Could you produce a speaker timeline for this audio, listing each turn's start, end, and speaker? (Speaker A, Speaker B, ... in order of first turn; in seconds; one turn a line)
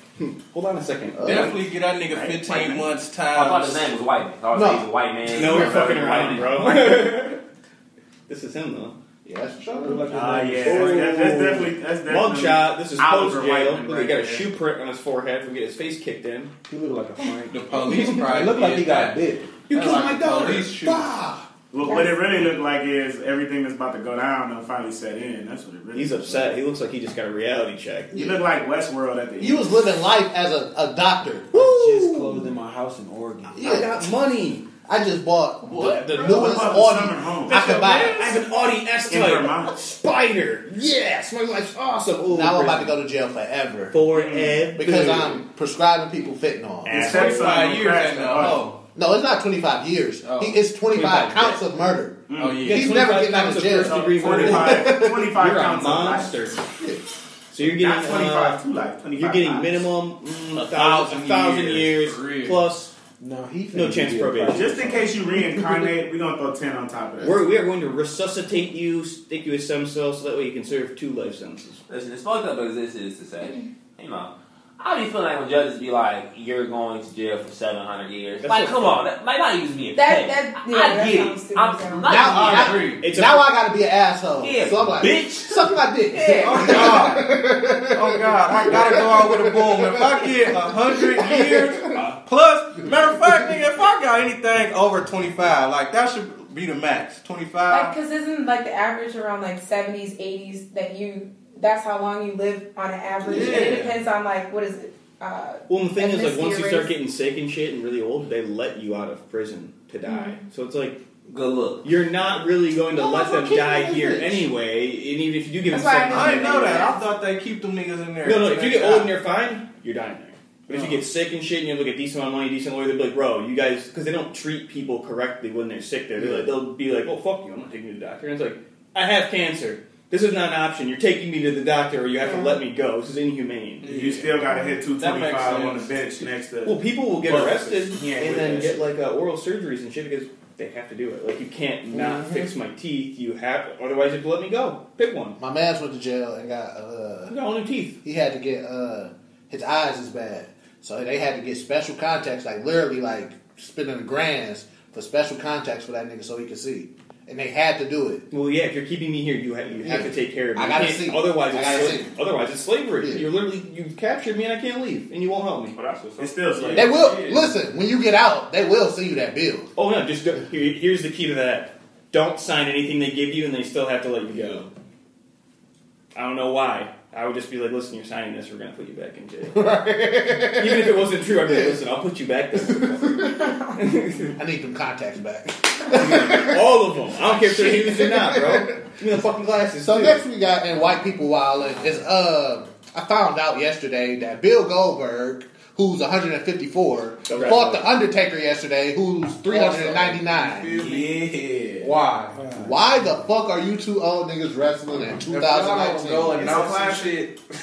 Speaker A: 0.2-1.7
Speaker B: 1.2-1.5
Speaker C: 1.2-3.9
Speaker D: 2.1-2.5
Speaker A: 2.5-2.8
Speaker E: 3.3-6.8
Speaker B: 4.5-4.9
Speaker A: 5.3-7.4
Speaker B: 5.4-6.0
Speaker A: 8.3-9.0
Speaker B: 9.2-10.2
Speaker F: 9.8-11.8
Speaker D: 10.1-14.5
Speaker A: 12.1-16.5
Speaker F: 16.6-19.6
Speaker C: 17.5-21.2
Speaker A: 17.8-18.3
Speaker A: 19.6-21.1
Speaker D: 21.7-26.6
Speaker G: 21.8-22.1
Speaker A: 25.9-28.1
Speaker D: 28.1-29.7
Speaker B: 28.1-28.4
Speaker B: 29.4-32.5
Speaker F: 31.5-33.8
Speaker B: 33.5-33.9
Speaker A: 33.6-34.6
Speaker B: 34.8-38.3
Speaker D: 35.7-37.7
Speaker A: 35.8-36.6
Speaker A: 37.5-43.0
Speaker D: 39.1-39.7
Speaker B: 42.3-44.0
Speaker A: 43.9-45.3
Speaker B: 44.7-47.6
Speaker D: 46.8-48.7
Speaker C: 46.9-48.8
Speaker A: 47.2-47.5
Speaker B: 48.9-55.3
Speaker F: 50.3-51.6
Speaker D: 52.3-52.8
Speaker C: 52.4-52.9
Speaker A: 52.6-56.6
Speaker D: 53.8-56.4
Speaker B: 56.8-57.0
Speaker A: 57.5-58.6
Speaker D: 57.6-59.9
Speaker A: 59.1-62.9
Speaker C: 60.5-62.6
Speaker F: 63.2-65.9
Speaker A: 63.7-64.9
Speaker D: 64.5-67.4
Speaker A: 67.2-71.8
Speaker E: 71.9-82.9
Speaker A: 78.4-79.0
Speaker G: 79.9-82.2
Speaker B: 82.0-91.8
Speaker C: 82.3-83.0
Speaker A: 82.5-83.5
Speaker E: 84.4-87.0
Speaker G: 86.1-86.4
Speaker C: 86.4-87.3
Speaker C: 87.9-97.9
Speaker G: 97.7-106.9
Speaker C: 103.3-103.9
Speaker D: 103.3-103.8
Speaker A: 105.7-111.0
Speaker G: 110.0-110.3
Speaker E: 111.3-111.8
Speaker A: 111.8-117.0
Speaker B: 112.9-114.5
Speaker G: 115.7-117.0
Speaker C: 116.1-119.1
Speaker A: 118.2-134.0
Speaker B: 126.2-126.5
Speaker C: 133.8-135.9
Speaker D: 133.8-138.8
Speaker A: 136.6-145.4
Speaker B: 141.9-142.5
Speaker B: 145.4-147.3
Speaker A: 147.3-148.0
Speaker B: 148.0-158.2
Speaker A: 158.3-165.8
Speaker B: 159.8-162.2
Speaker B: 163.0-163.2
Speaker E: 165.8-166.7
Speaker D: 166.2-167.4
Speaker B: 166.8-169.7
Speaker A: 169.8-174.7
Speaker A: 176.1-179.6
Speaker B: 179.5-181.8
Speaker A: 180.4-184.3
Speaker B: 182.5-183.5
Speaker B: 184.3-188.9
Speaker A: 185.9-190.2
Speaker B: 189.8-200.7
Speaker A: 197.3-197.9
Speaker C: 199.5-201.1
Speaker D: 200.7-202.7
Speaker C: 201.8-202.3
Speaker B: 202.6-206.5
Speaker C: 205.3-207.4
Speaker D: 206.3-207.2